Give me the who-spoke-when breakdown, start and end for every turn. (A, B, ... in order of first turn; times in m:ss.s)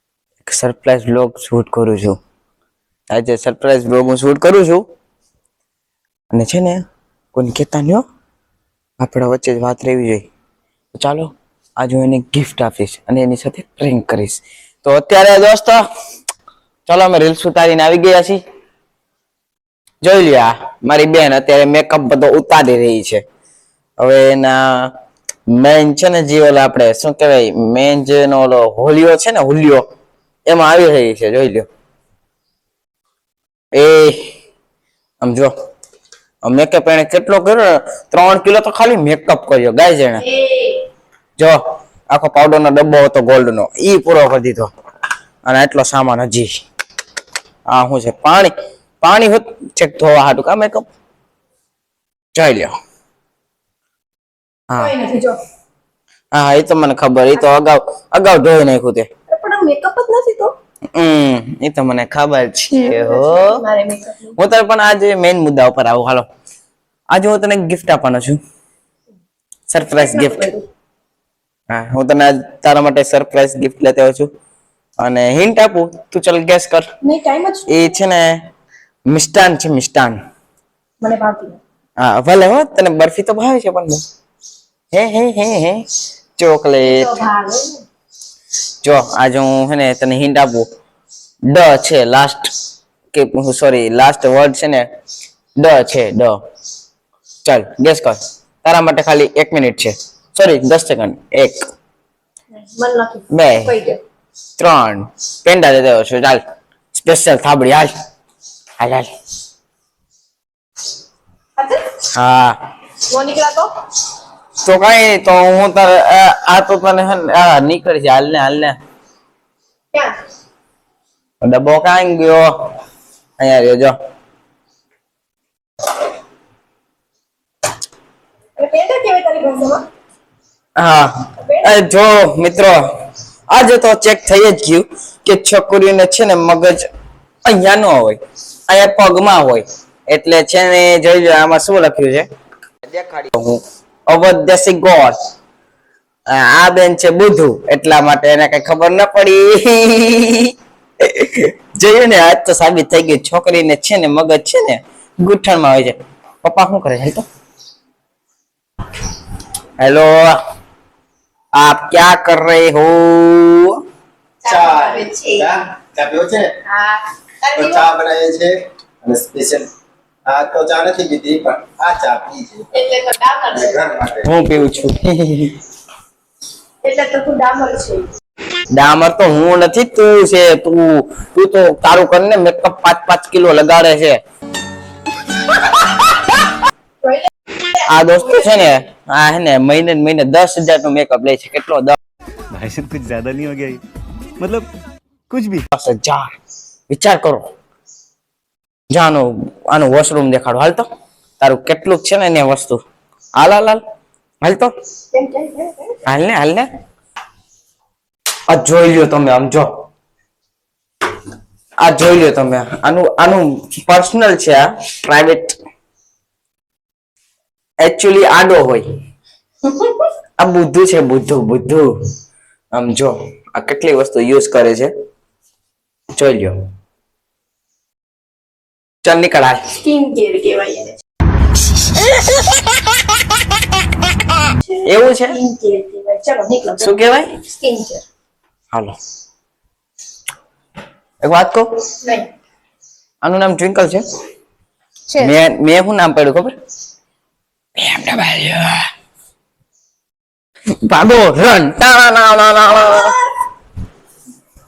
0:00.4-0:02.2 A
0:03.1-0:04.8 A
0:06.3-0:06.8 A
0:07.3-0:08.0 A
0:09.0-0:10.2 A
0:10.9-0:15.8 A
0:16.9-0:18.4 A
0:20.0-0:23.2 A
0:24.0-0:24.9 A
0:25.5-0:29.8 A
0:30.5-0:31.7 A
0:33.7-0:34.2 A
0:35.2-0:35.5 A
0:36.4-0:40.2 A
0:40.2-0:40.8 B
0:42.1-0:44.7 A
0:45.4-0:46.5 A
0:47.7-0:50.8 A
0:52.3-0:52.7 A
0:54.8-0:55.4 B
0:56.3-0:59.1 A
0:59.3-1:00.5 B
1:00.9-1:03.6 A
1:02.7-1:04.4 B
1:04.4-1:06.3 A
1:07.1-1:08.4 A
1:09.7-1:10.5 A
1:09.9-1:10.6 B
1:11.7-1:14.3 A
1:15.0-1:16.8 A
1:17.0-1:18.0 B
1:17.7-1:18.4 A
1:19.1-1:20.2 A
1:21.0-1:21.6 B
1:22.0-1:24.0 A
1:24.9-1:25.8 A
1:26.4-1:27.2 A
1:26.8-1:27.8 B
1:28.8-1:30.7 A
1:31.5-1:32.5 A
1:33.1-1:34.9 A
1:35.6-1:36.4 A
1:37.4-1:41.6 A
1:42.5-1:44.0 B
1:43.3-1:43.7 A
1:44.6-1:46.4 A
1:46.9-1:47.9 A
1:48.8-1:49.1 A
1:51.6-1:51.9 B
1:52.1-1:52.6 A
1:53.0-1:53.7 B
1:54.6-1:58.8 A
2:01.4-2:02.5 A
2:03.4-2:03.9 A
2:08.6-2:09.8 B
2:10.8-2:12.8 A
2:11.4-2:11.8 B
2:13.5-2:16.9 A
2:17.4-2:22.3 A
2:22.9-2:25.2 A
2:26.3-2:37.2 A
2:39.8-2:40.4 A
2:41.5-2:43.8 A
2:44.4-2:45.5 B
2:44.4-2:46.5 C
2:46.7-2:47.9 B
2:47.6-2:49.7 C
2:50.3-2:52.7 C
2:52.7-2:53.8 B
2:53.5-2:54.3 C
2:54.2-2:55.6 A
2:56.8-2:58.1 B
2:58.7-3:04.2 A
3:05.5-3:06.2 A
3:07.0-3:08.7 B
3:07.8-3:12.0 A
3:12.5-3:13.8 D
3:14.4-3:14.7 D
3:15.3-3:15.6 D
3:15.7-3:16.3 A
3:16.9-3:17.5 A
3:18.9-3:20.9 A
3:21.4-3:22.8 A
3:23.4-3:23.8 A
3:24.4-3:24.7 A
3:25.1-3:26.0 B
3:26.0-3:26.7 A
3:28.5-3:29.7 A
3:31.8-3:35.5 A
3:37.8-3:38.9 A
3:40.4-3:41.9 A
3:42.7-3:44.9 A
3:46.2-3:46.6 A
3:49.0-3:49.7 A
3:49.8-3:51.0 B
3:54.7-3:58.0 B
3:54.8-3:55.4 A
3:56.8-3:57.4 A
4:01.2-4:01.7 A
4:03.2-4:04.0 A
4:05.2-4:06.5 A
4:07.8-4:08.8 A
4:10.8-4:13.2 A